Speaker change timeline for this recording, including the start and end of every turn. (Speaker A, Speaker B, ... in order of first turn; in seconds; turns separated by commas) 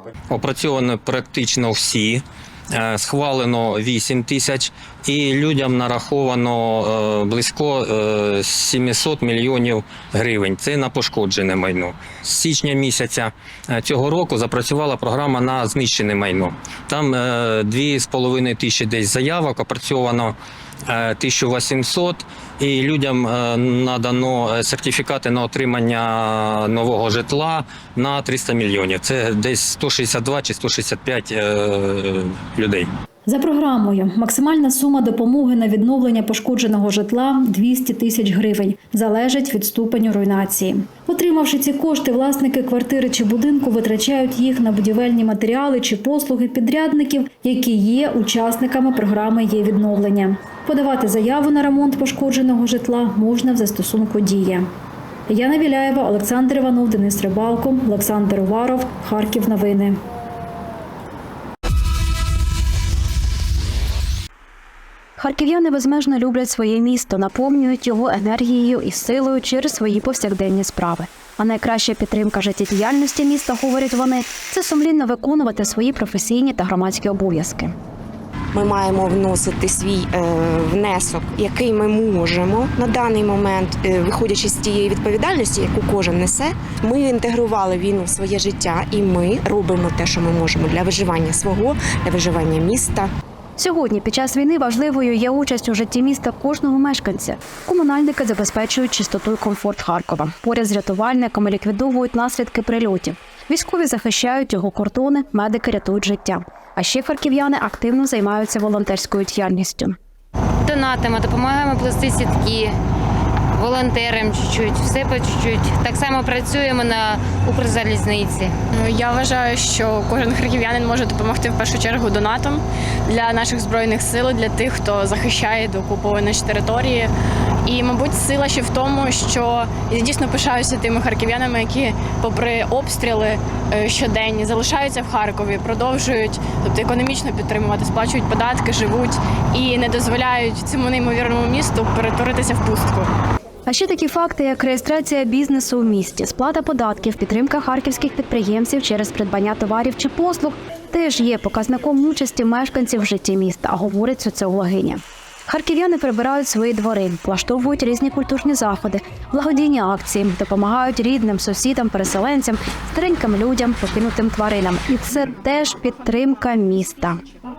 Speaker A: 0.3-32.9, Speaker B: 33.3-54.7, Speaker B: 55.3-60.0, Speaker C: 65.2-77.7, Speaker D: 78.5-93.1, Speaker C: 93.6-110.0, Speaker E: 110.7-112.7, Speaker E: 113.6-118.5, Speaker F: 118.8-127.1, Speaker F: 127.7-143.1, Speaker C: 143.7-167.2